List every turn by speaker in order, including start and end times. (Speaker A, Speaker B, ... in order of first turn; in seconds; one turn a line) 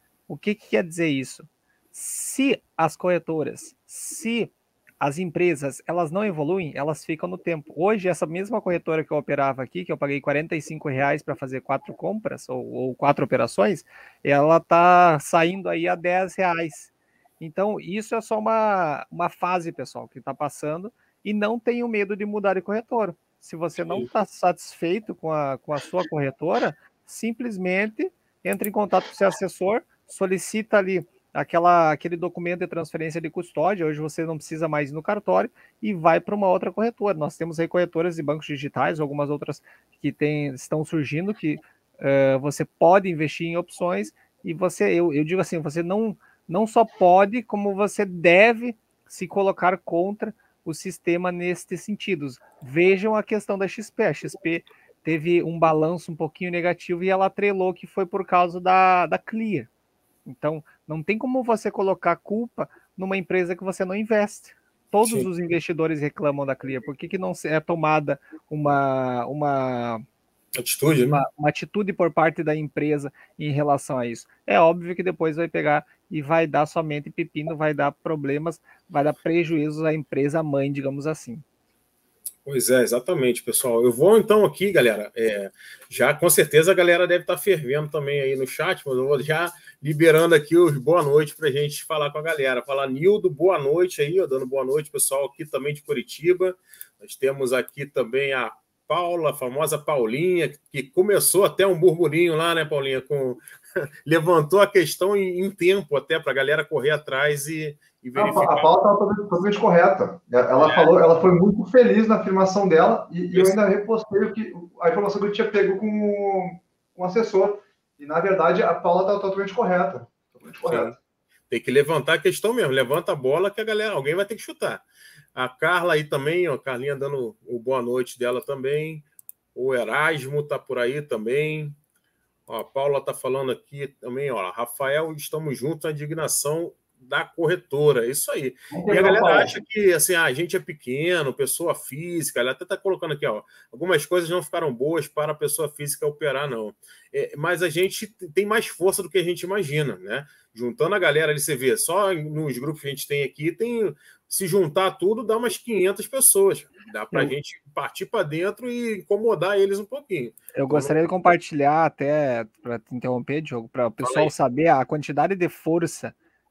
Speaker A: 0.3-59.7
Speaker B: 23.8-24.1
Speaker A: 60.2-70.0
Speaker B: 65.0-65.3
Speaker B: 70.6-71.2
Speaker A: 71.1-81.4
Speaker B: 82.5-103.4
Speaker B: 104.0-108.7
Speaker C: 108.2-121.0
Speaker B: 110.6-110.9
Speaker B: 113.3-113.6
Speaker B: 120.6-121.0
Speaker B: 121.5-124.8
Speaker B: 125.3-131.8
Speaker B: 132.5-161.3
Speaker C: 138.7-139.5
Speaker A: 160.5-166.2
Speaker B: 164.0-164.3